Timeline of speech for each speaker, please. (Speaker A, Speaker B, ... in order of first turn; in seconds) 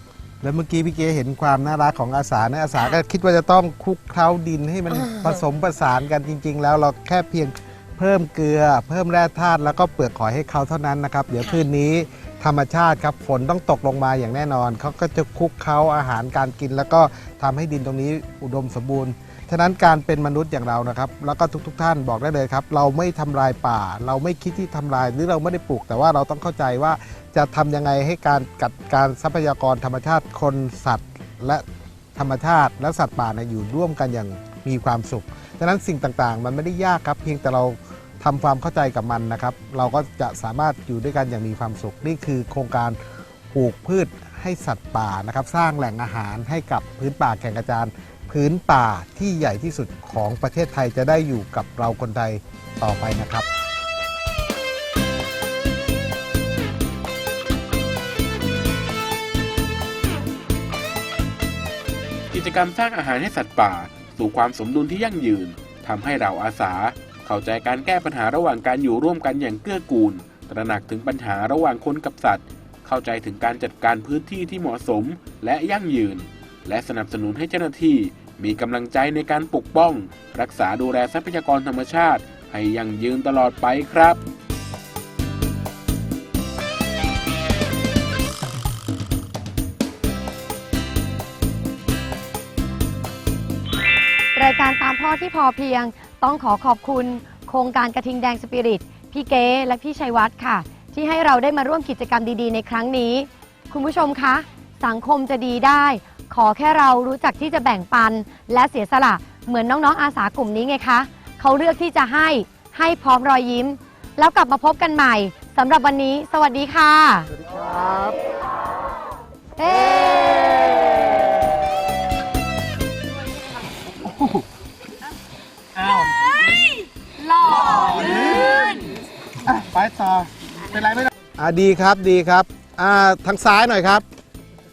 Speaker A: 0.4-31.6, 32.2-43.0, 43.5-53.5, 117.3-118.2, 119.7-121.2, 124.0-124.5, 125.8-126.7, 127.4-134.1
Speaker B: 62.3-84.2
Speaker C: 94.4-117.3, 119.6-120.0